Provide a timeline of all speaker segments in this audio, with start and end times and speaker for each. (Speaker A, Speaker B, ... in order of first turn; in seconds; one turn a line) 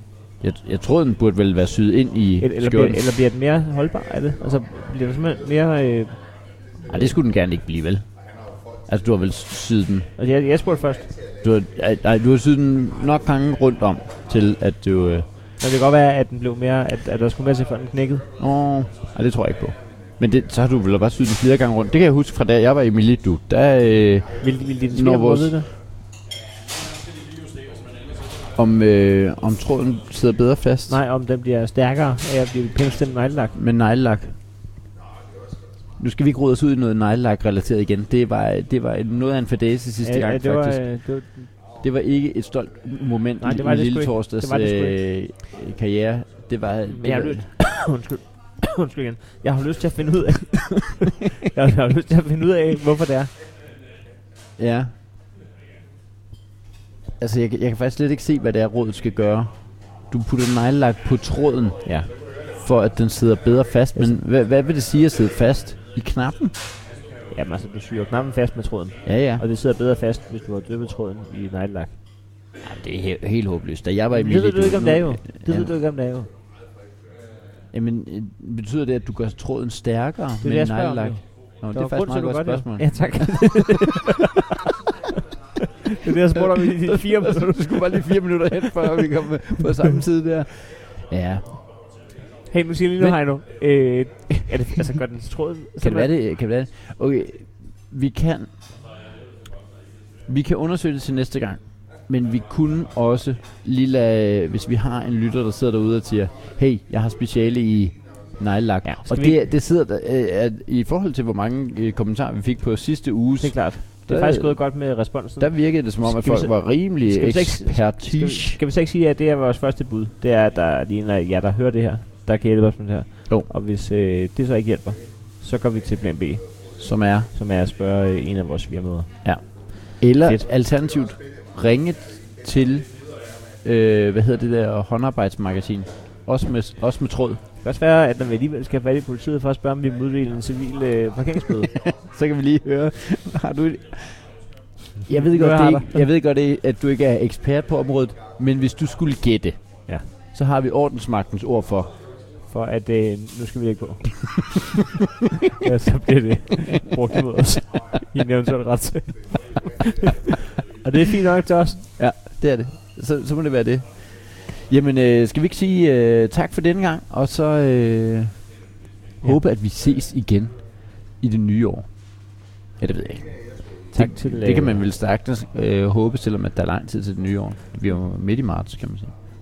Speaker A: 0.4-3.0
Speaker B: 2.4-6.3
Speaker B: 6.8-7.2
Speaker A: 6.9-8.1
Speaker A: 8.9-10.1
Speaker B: 10.2-11.1
Speaker A: 11.4-15.3
Speaker B: 15.6-18.2
Speaker A: 18.4-25.6
Speaker B: 24.4-25.7
Speaker A: 28.5-31.0
Speaker B: 30.9-33.5
Speaker A: 33.5-34.3
Speaker A: 36.0-40.9
Speaker B: 40.0-41.5
Speaker A: 41.8-47.5
Speaker B: 43.4-45.0
Speaker B: 46.9-50.9
Speaker B: 51.5-53.3
Speaker A: 54.6-54.9
Speaker A: 57.2-61.9
Speaker B: 61.8-62.1
Speaker A: 62.6-66.5
Speaker B: 67.3-72.0
Speaker A: 69.0-69.4
Speaker A: 72.6-75.7
Speaker B: 74.1-76.3
Speaker A: 77.7-83.7
Speaker B: 80.4-84.4
Speaker B: 85.9-87.8
Speaker A: 86.3-91.5
Speaker B: 92.5-96.1
Speaker A: 95.8-98.5
Speaker A: 100.3-114.8
Speaker B: 108.8-109.4
Speaker B: 113.4-129.7
Speaker A: 115.4-118.6
Speaker A: 126.8-127.3
Speaker A: 129.2-132.9
Speaker A: 133.6-137.4
Speaker B: 137.6-141.7
Speaker A: 141.7-144.3
Speaker A: 145.1-151.9
Speaker B: 145.2-146.0
Speaker B: 152.4-154.4
Speaker B: 155.6-160.1
Speaker B: 160.8-161.8
Speaker A: 162.0-168.4
Speaker A: 169.2-179.1
Speaker B: 173.9-174.8